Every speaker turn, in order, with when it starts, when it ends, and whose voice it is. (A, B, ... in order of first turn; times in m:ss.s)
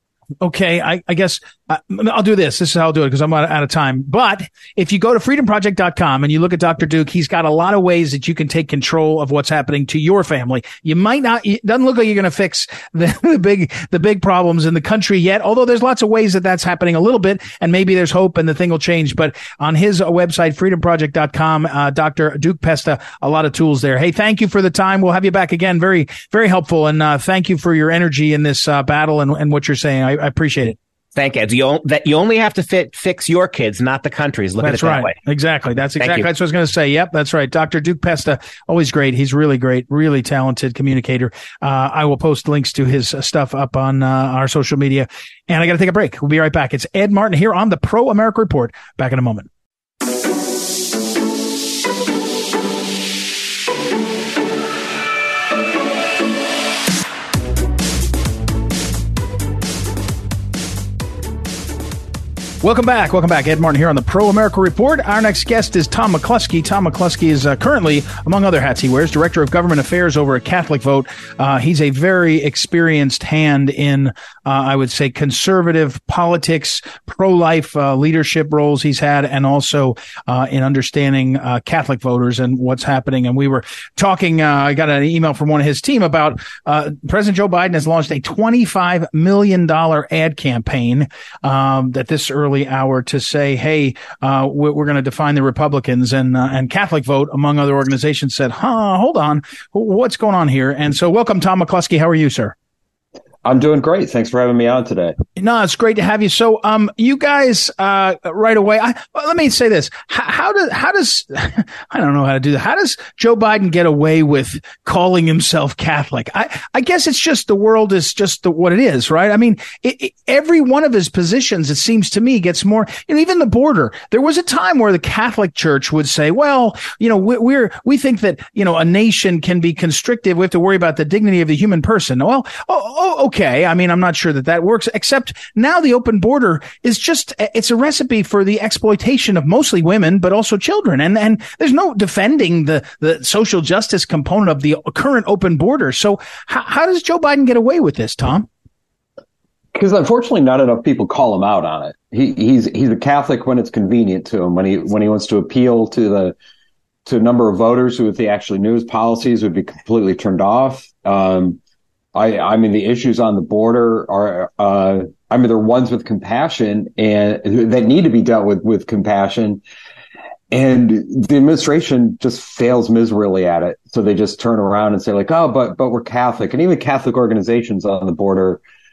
0:00.4-0:30.8 A
0:31.2-0:35.2 B
0:34.6-0:49.5 A
0:36.0-0:36.3 B
1:02.6-1:42.6 A
1:43.4-1:45.2 C
1:45.4-2:28.5 A
2:29.8-2:36.4 C
2:37.1-2:41.6 C
2:42.2-2:49.6 C
2:50.5-2:58.6 C